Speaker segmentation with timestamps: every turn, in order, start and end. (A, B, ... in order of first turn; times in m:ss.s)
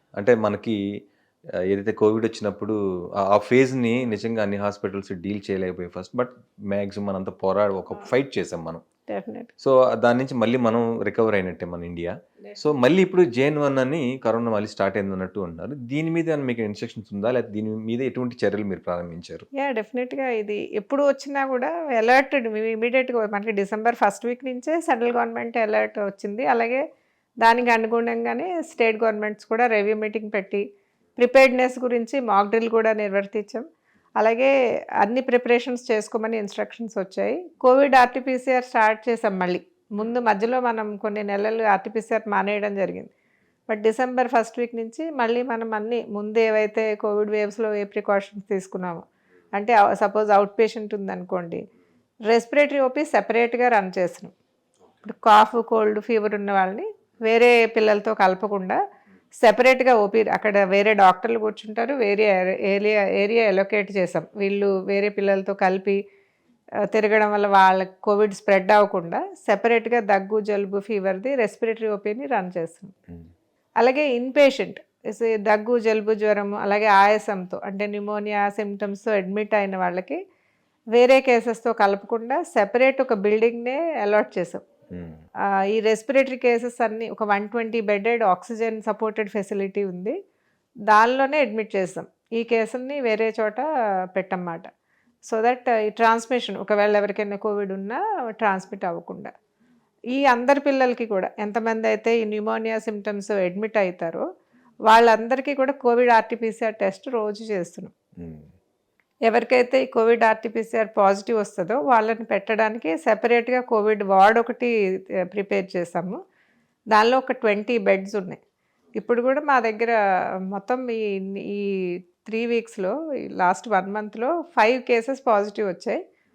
0:00.2-0:00.8 A
0:01.7-0:02.8 A
0:03.3-0:08.8 A
0:09.1-0:09.5 B
0:09.6-0:19.5 A
0:19.6-0:26.8 B
0:27.4-0:30.6 B
0:31.2-0:33.6 B
0:34.2-0:34.5 B
0:35.0-0:43.1 B
0:43.7-0:49.0 B
0:49.6-0:51.6 B
0:52.3-0:54.3 B
0:55.0-0:58.8 B
0:59.4-1:06.0 B
1:06.9-1:13.0 B
1:13.8-1:20.2 B
1:21.0-1:24.6 B
1:24.9-1:25.2 A
1:25.7-1:30.2 B
1:30.9-1:34.7 B
1:35.3-1:39.3 B
1:40.1-1:44.2 B
1:44.9-1:47.9 B
1:48.2-1:48.5 A
1:49.3-1:54.7 B
1:55.3-1:56.2 B
1:56.9-1:58.4 B
1:59.0-2:00.0 B
2:00.5-2:01.7 B
2:02.2-2:06.0 B